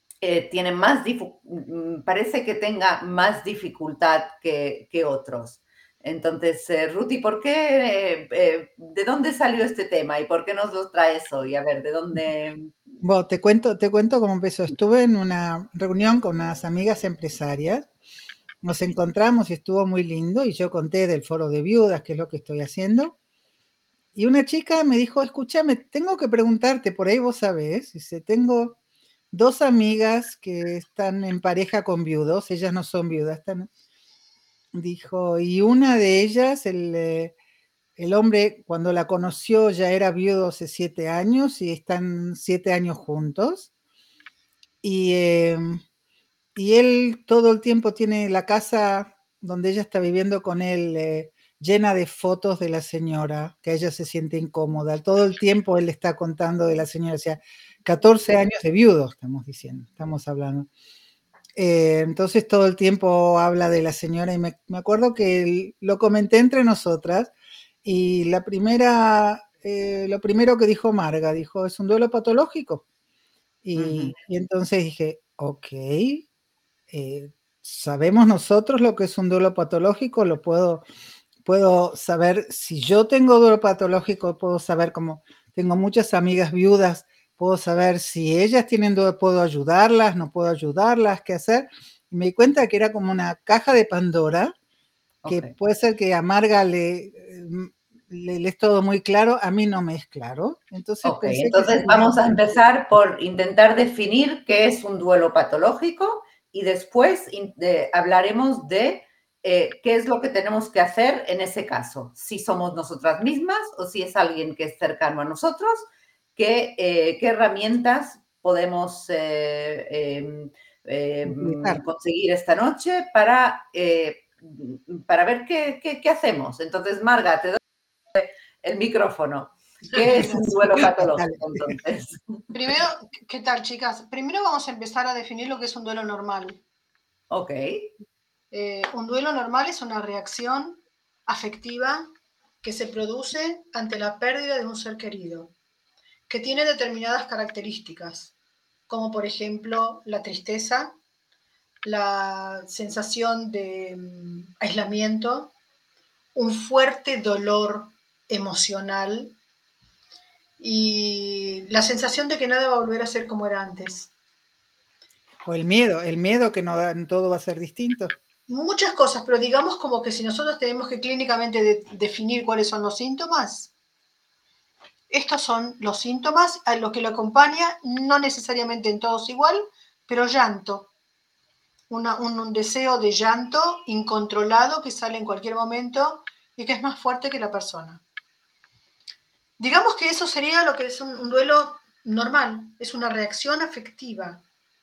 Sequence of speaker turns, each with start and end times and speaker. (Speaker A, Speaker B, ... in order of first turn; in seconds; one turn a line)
Speaker A: 0.2-12.7
Speaker B: 13.0-17.9
Speaker B: 18.6-23.1
Speaker B: 24.1-28.8
Speaker B: 29.3-33.7
Speaker B: 34.7-37.4
Speaker B: 38.0-43.7
Speaker B: 44.8-45.8
Speaker B: 46.5-60.7
Speaker B: 61.5-67.3
Speaker B: 67.8-72.8
Speaker B: 73.6-76.3
Speaker A: 73.8-74.1
Speaker B: 76.9-80.8
Speaker B: 81.4-94.5
Speaker A: 95.2-95.5
Speaker B: 95.3-102.3
Speaker A: 101.0-127.6
Speaker B: 121.2-121.8
Speaker A: 128.1-132.4
Speaker B: 130.2-131.8
Speaker C: 132.5-136.6
Speaker A: 137.3-137.9
Speaker C: 138.5-142.1
Speaker C: 142.6-145.5
Speaker C: 146.3-148.3
Speaker C: 148.9-150.9
Speaker C: 151.8-155.5
Speaker C: 156.3-159.3
Speaker C: 160.6-164.1
Speaker B: 165.4-168.2
Speaker C: 168.5-173.7
Speaker C: 175.1-180.9
Speaker C: 181.9-188.0
Speaker C: 189.6-194.4